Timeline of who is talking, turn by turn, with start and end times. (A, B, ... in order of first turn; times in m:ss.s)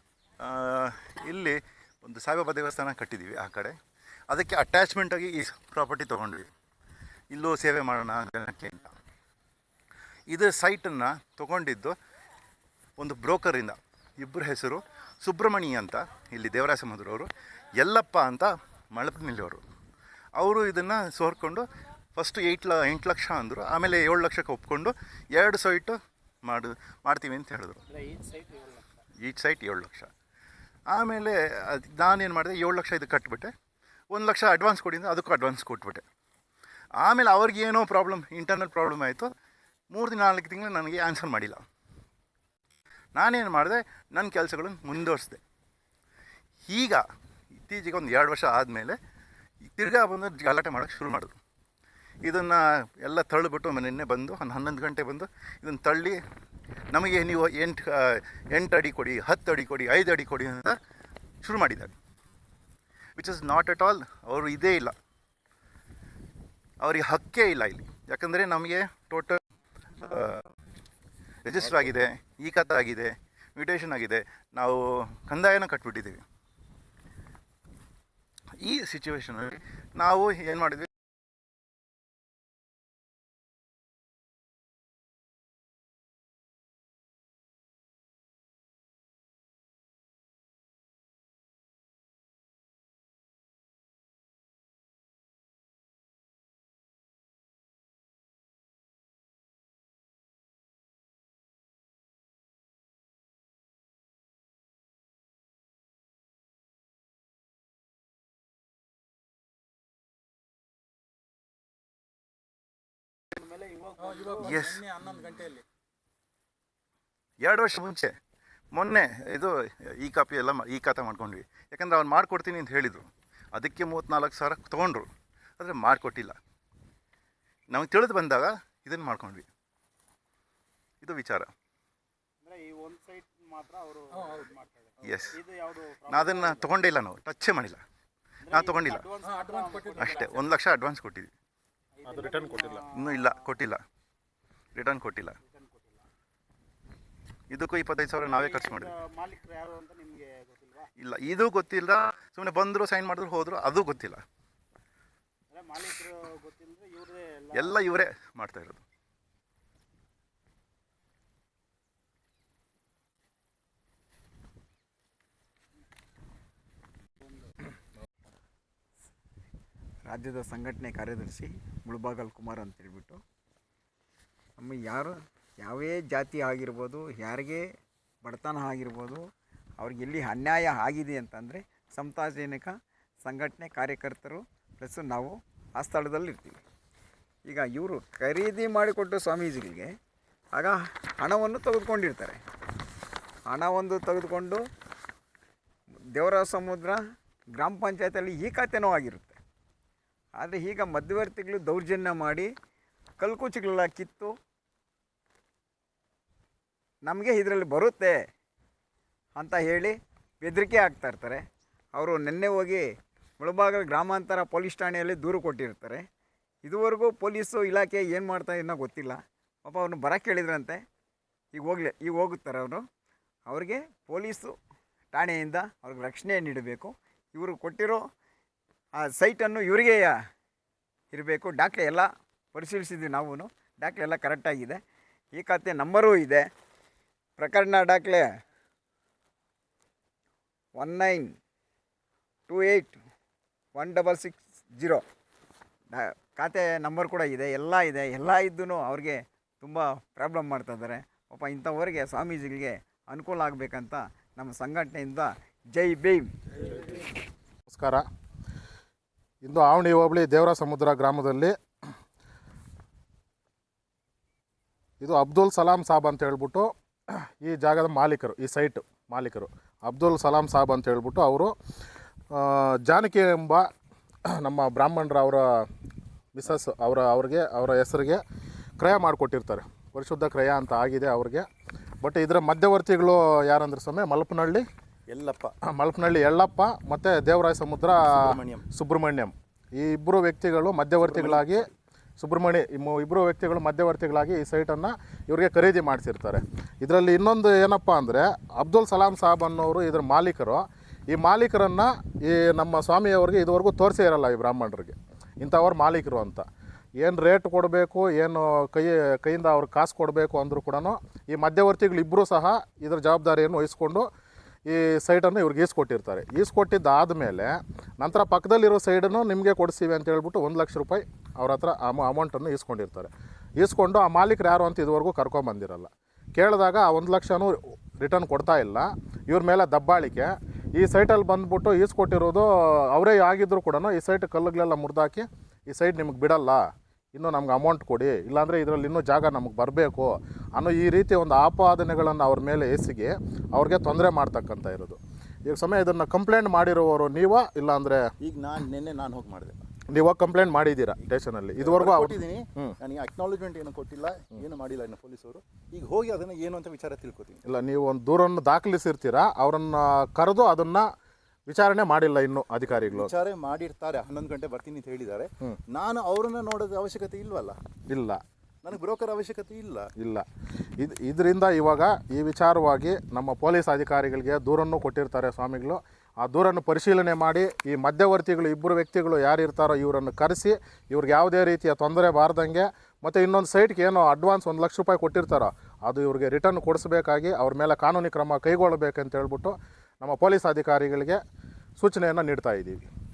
0:00.4-0:03.8 A
0:04.3-0:06.5 A
0:07.3-0:09.0 A
0:10.3-0:12.0 A
0:13.0-0:19.6 A
0:20.4-0:27.8 A
0:27.9-0:28.9 B
0:29.2-0:30.1 A
0:30.9-0:33.5 A
0:34.1-0:36.0 A
0:37.0-0:39.3 A
0:39.9-0:41.6 A
0:43.2-0:45.4 A
0:46.7-0:47.0 A
0:47.6-0:49.0 A
0:49.7-0:51.3 A
0:52.2-0:56.2 A
0:56.9-1:00.8 A
1:01.4-1:01.9 A
1:03.2-1:05.0 A
1:06.8-1:09.4 A
1:10.0-1:10.5 A
1:11.4-1:16.2 A
1:18.6-1:20.9 A
1:53.3-1:54.6 B
1:54.3-1:55.6 A
1:57.4-1:58.1 A
1:58.7-2:05.1 A
2:05.6-2:06.4 A
2:07.7-2:09.5 A
2:11.0-2:11.5 A
2:12.4-2:16.7 B
2:15.0-2:15.4 A
2:16.1-2:17.8 A
2:18.5-2:20.5 B
2:18.5-2:19.1 A
2:20.0-2:21.3 A
2:22.0-2:23.3 B
2:22.1-2:22.9 C
2:22.9-2:23.8 A
2:24.7-2:25.4 A
2:25.5-2:26.0 B
2:27.5-2:29.0 A
2:28.3-2:30.9 B
2:31.0-2:34.2 A
2:35.5-2:37.8 B
2:37.5-2:38.8 A
2:50.0-2:53.2 D
2:54.6-2:57.6 D
2:58.2-2:59.2 D
2:59.8-3:06.6 D
3:07.5-3:09.9 D
3:10.5-3:12.4 D
3:13.5-3:14.6 D
3:16.1-3:17.0 D
3:17.6-3:19.4 D
3:20.4-3:22.5 D
3:23.2-3:24.4 D
3:27.1-3:28.2 D
3:29.4-3:32.9 D
3:33.4-3:36.0 D
3:36.6-3:40.8 D
3:41.5-3:42.8 D
3:43.5-3:44.6 D
3:45.1-3:48.0 D
3:49.0-3:50.2 D
3:51.1-3:54.8 D
3:55.3-3:56.5 D
3:57.4-3:58.3 D
4:00.8-4:01.3 D
4:02.5-4:03.0 D
4:03.8-4:05.0 D
4:05.9-4:17.0 D
4:17.7-4:18.0 C
4:19.4-4:21.5 C
4:25.0-4:31.5 C
4:32.3-4:33.6 C
4:34.3-4:35.6 C
4:36.4-4:38.2 C
4:38.8-4:41.5 C
4:42.0-4:44.6 C
4:45.1-4:45.5 A
4:45.7-4:51.7 C
4:48.1-4:48.7 A
4:51.0-4:51.7 A
4:52.2-5:06.4 C
5:07.0-5:14.0 C
5:14.7-5:36.6 C
5:37.1-5:48.0 C
5:48.2-5:49.6 A
5:49.9-5:52.8 C
5:51.6-5:57.4 A
5:57.5-6:00.9 C
6:01.5-6:03.1 C
6:02.7-6:07.6 A
6:07.9-6:08.2 C
6:08.6-6:09.9 A
6:10.0-6:10.3 C
6:10.8-6:31.2 C
6:31.8-6:32.9 C